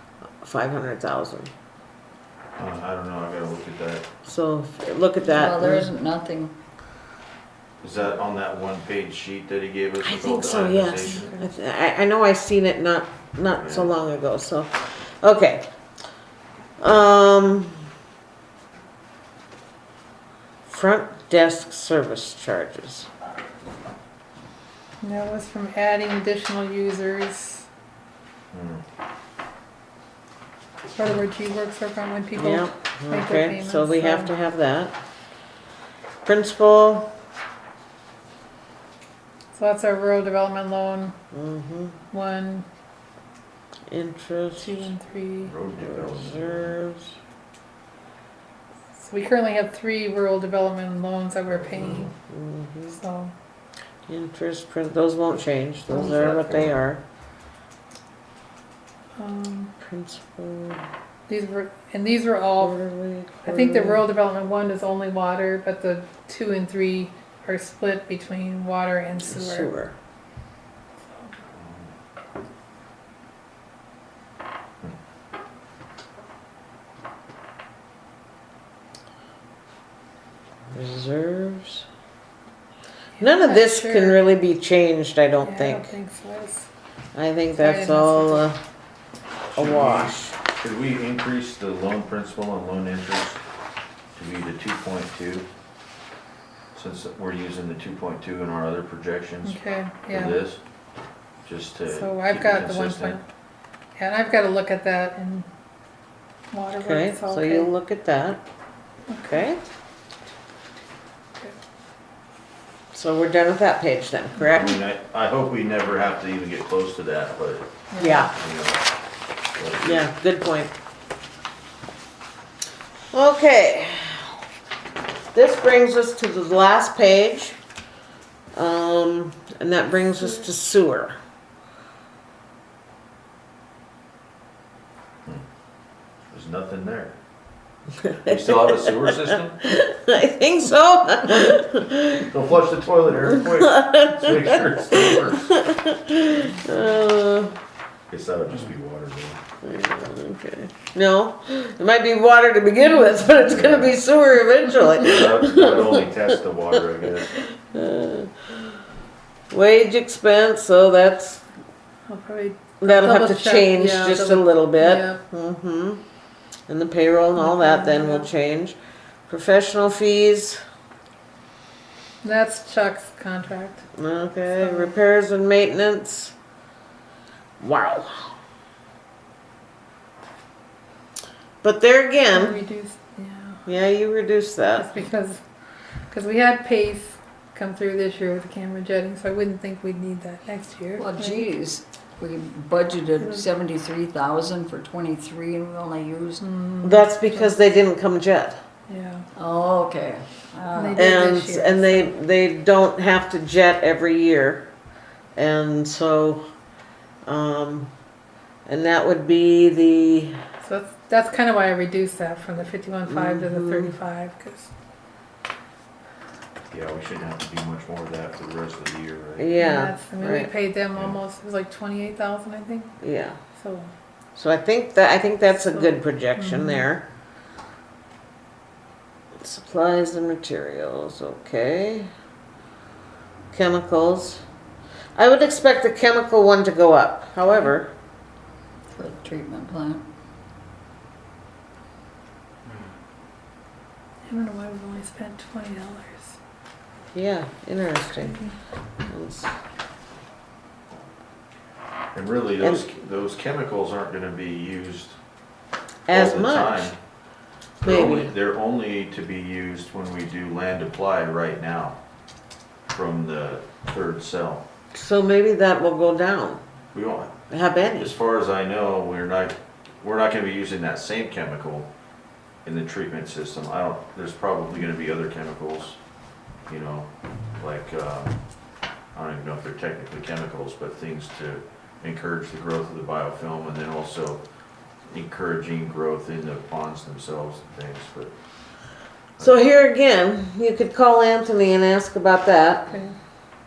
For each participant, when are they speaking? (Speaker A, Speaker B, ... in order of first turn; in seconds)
Speaker A: 0.4-1.5, 4.2-5.9, 10.0-15.7, 16.8-17.8, 20.7-23.1, 32.4-35.0, 36.2-37.1, 41.3-42.0, 43.9-44.8, 45.8-47.1, 51.9-53.0, 54.1-57.0, 59.8-60.8, 62.6-64.1, 69.2-69.9, 80.7-81.8, 83.2-85.9, 87.2-88.6, 89.5-90.3, 106.8-108.4, 109.2-109.6, 112.9-114.8, 118.0-118.3, 119.8-120.7, 123.1-124.2, 125.3-127.6, 128.5-131.2, 138.0-142.3, 143.5-147.5, 149.6-156.0, 157.4-158.7, 159.5-161.4, 162.8-166.0, 166.7-168.8, 169.3-170.6, 173.9-176.3, 177.6-178.3, 181.6-182.6, 183.7-184.9, 196.8-198.6, 200.9-204.7, 205.3-206.4, 207.2-207.9, 208.7-210.3, 213.1-213.9, 219.4-220.5, 223.0-223.4, 224.3-227.0, 229.4-232.1, 233.5-234.4, 235.2-237.9, 247.1-248.4, 249.0-249.5, 256.1-256.9, 257.8-258.3, 264.9-266.6, 267.5-268.1, 289.4-292.9
Speaker B: 2.6-4.0, 7.8-11.4, 13.5-13.9, 28.5-28.8, 45.5-46.8, 51.5-52.1, 55.9-56.8, 71.5-71.9, 89.5-93.4, 94.2-95.5, 96.7-100.6, 101.5-103.2, 114.5-117.7, 118.3-118.8, 119.6-120.1, 136.3-137.1, 138.2-139.6, 142.3-145.5, 148.1-149.4, 153.5-153.9, 154.9-157.3, 216.7-219.5, 252.1-255.2, 256.1-256.9, 257.8-262.0, 262.9-264.6, 266.9-271.9, 272.6-276.0, 276.7-278.4, 279.1-284.4, 285.1-288.3
Speaker C: 5.2-6.5, 191.0-196.4, 199.3-201.1, 238.9-240.0
Speaker D: 11.1-11.5, 25.0-27.7, 30.9-34.3, 39.5-41.1, 42.1-42.7, 44.6-45.5, 49.0-52.1, 52.9-53.3, 59.2-59.7, 61.3-62.8, 63.4-69.7, 83.2-84.3, 85.4-86.7, 87.6-88.5, 99.5-100.4, 101.9-103.2, 104.0-105.5, 106.5-107.7, 109.1-109.5, 117.9-118.3, 162.1-165.2, 167.3-168.3, 172.2-173.8, 174.5-174.9, 182.3-183.6, 184.8-185.4, 186.1-191.5, 193.2-193.5, 196.4-197.6, 198.9-199.3, 200.7-202.1, 210.6-214.7, 219.6-222.9, 223.6-223.9, 225.7-226.9, 244.3-246.4, 248.2-248.4, 292.9-293.1